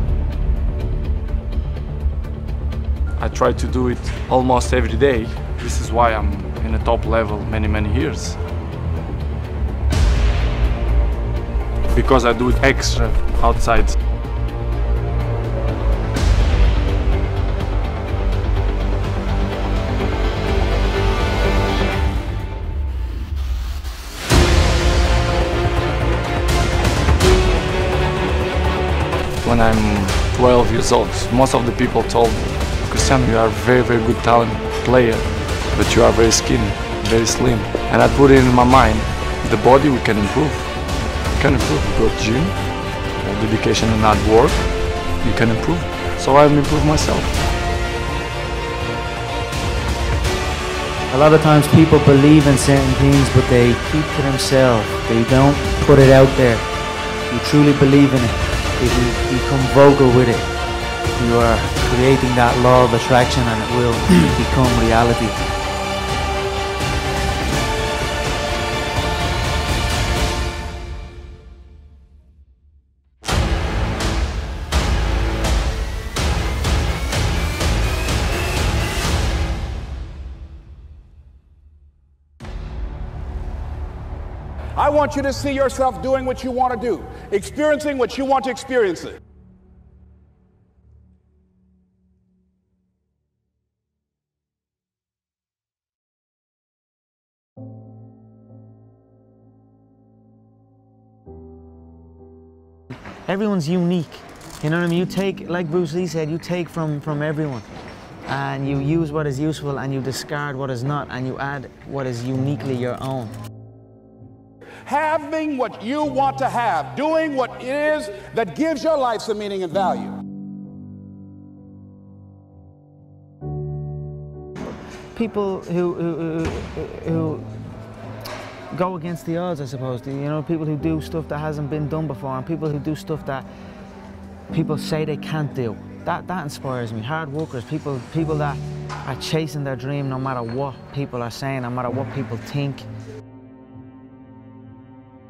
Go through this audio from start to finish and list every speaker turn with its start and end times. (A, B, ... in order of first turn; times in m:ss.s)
0:03.2-0:08.4 A
0:11.9-0:14.0 A
0:29.4-0:47.4 A
0:51.1-0:56.6 B
0:57.3-1:00.4 B
1:01.2-1:05.4 B
1:24.8-1:29.2 C
1:43.3-1:47.6 B
1:48.3-1:53.3 B
1:54.8-2:00.2 C
2:05.2-2:07.5 B
2:08.7-2:13.5 B
2:14.5-2:22.8 B